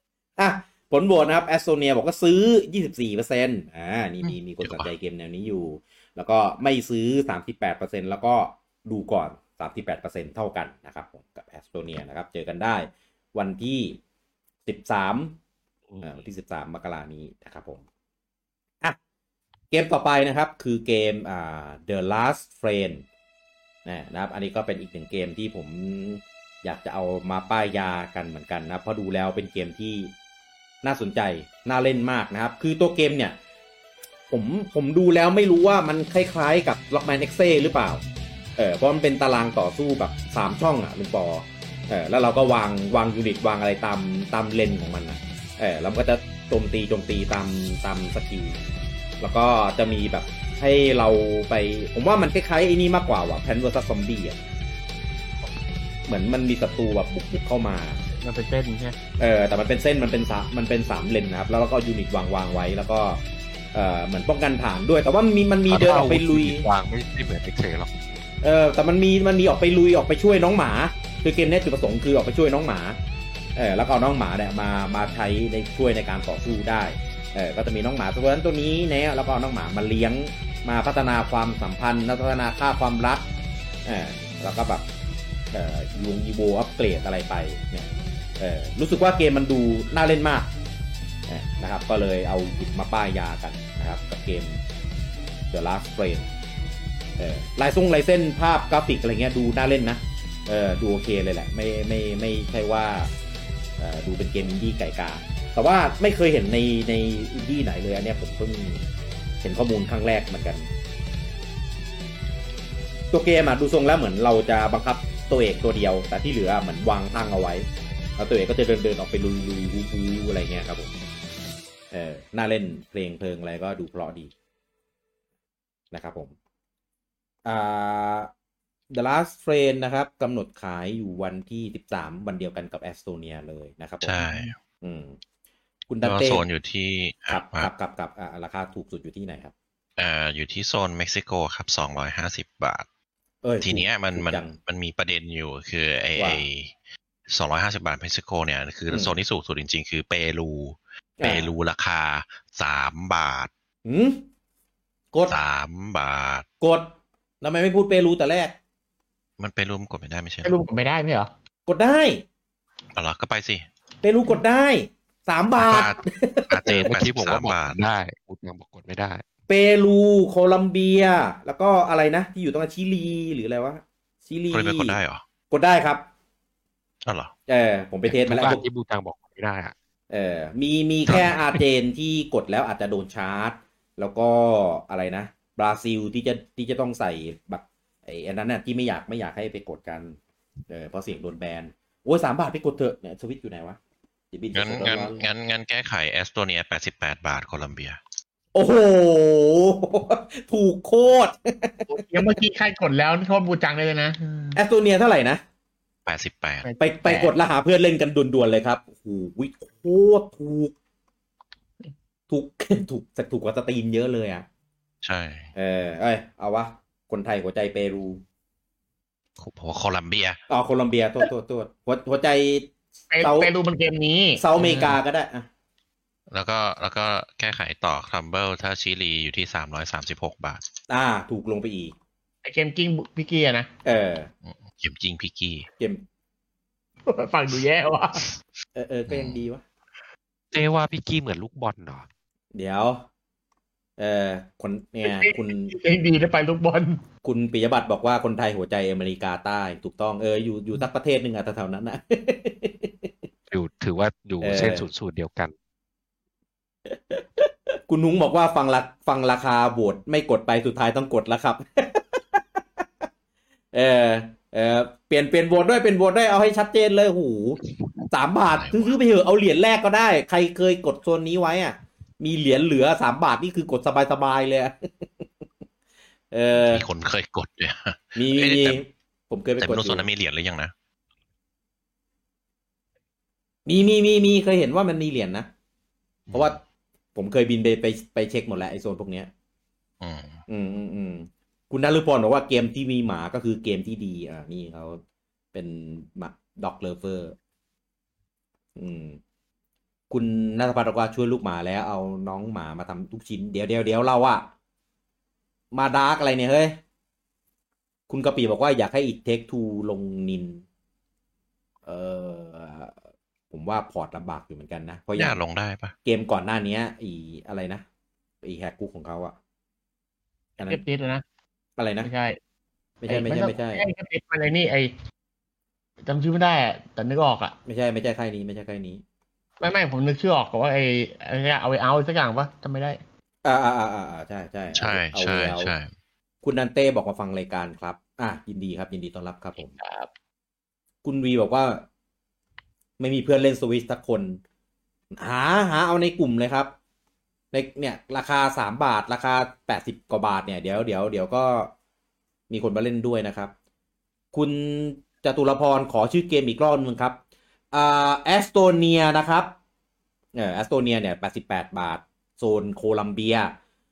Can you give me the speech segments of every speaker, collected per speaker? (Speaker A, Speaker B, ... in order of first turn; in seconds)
Speaker A: 0.4-14.0, 14.7-15.4, 16.0-17.8, 19.7-23.0, 23.9-30.1, 30.8-33.4, 34.3-38.0, 38.6-48.6, 49.2-54.4, 56.1-58.0, 59.2-63.2, 63.7-66.7, 68.4-73.0, 73.5-83.2, 83.8-84.8, 85.5-90.5, 91.3-94.6, 95.5-96.3, 97.2-103.1, 103.8-108.8, 109.4-110.7, 113.1-117.7, 118.2-120.9, 121.9-124.3, 125.9-126.3, 127.4-128.3, 128.9-134.2, 134.8-135.2, 135.9-136.4, 137.3-139.5, 143.4-144.6, 146.2-146.4, 148.9-149.1, 151.2-151.5, 153.8-154.2, 156.6-158.6, 161.7-162.2, 164.0-166.6, 169.5-175.0, 175.5-176.0, 177.5-178.6, 180.1-190.2, 190.7-193.8, 194.3-195.2, 198.5-202.3, 204.5-205.4, 206.8-210.7, 212.3-214.4, 215.5-218.2, 220.5-223.5, 224.4-225.5, 230.9-231.9, 233.8-234.3, 235.8-236.0, 238.8-239.6, 242.5-243.0, 244.0-245.7, 247.2-253.1, 254.4-254.9, 256.9-263.1, 263.7-267.6, 268.1-275.3, 276.3-276.9, 278.1-280.0, 283.6-285.5, 286.3-286.6, 287.1-289.3, 290.5-295.0, 295.5-297.4, 298.8-299.2, 300.1-304.5, 305.7-306.8, 308.1-310.6, 311.9-312.9, 313.5-315.4, 316.0-317.8, 318.4-319.4, 321.8-322.1, 323.0-323.9, 327.6-329.0, 333.4-335.7, 336.4-339.7, 341.0-341.8, 343.0-344.4, 345.1-346.7, 347.5-351.7, 352.5-353.5, 354.3-357.2, 357.7-359.5, 360.3-363.6
Speaker B: 4.2-4.9, 134.0-134.6, 136.0-137.7, 140.0-142.8, 143.6-146.7, 147.3-153.5, 155.3-156.4, 159.4-160.6, 162.9-163.6, 165.6-167.8, 174.5-175.2, 177.1-177.3, 194.5-198.0, 206.1-206.7, 215.0-215.5, 219.4-220.4, 226.3-230.6, 234.4-235.7, 239.1-239.4, 268.5-268.9, 276.5-278.8, 279.6-280.7, 286.3-286.6, 290.0-290.4, 315.1-315.9, 334.7-335.9
Speaker C: 58.2-59.0, 134.2-134.5, 160.4-161.3, 201.9-204.6, 206.6-207.3, 223.1-225.0, 232.4-233.7, 237.1-238.2, 245.1-247.0, 320.7-321.2, 322.0-322.4, 323.1-324.9, 326.0-327.6, 329.6-333.0, 339.8-340.1
Speaker D: 65.7-68.2, 166.6-169.2, 178.1-179.7, 240.5-242.1, 253.5-255.5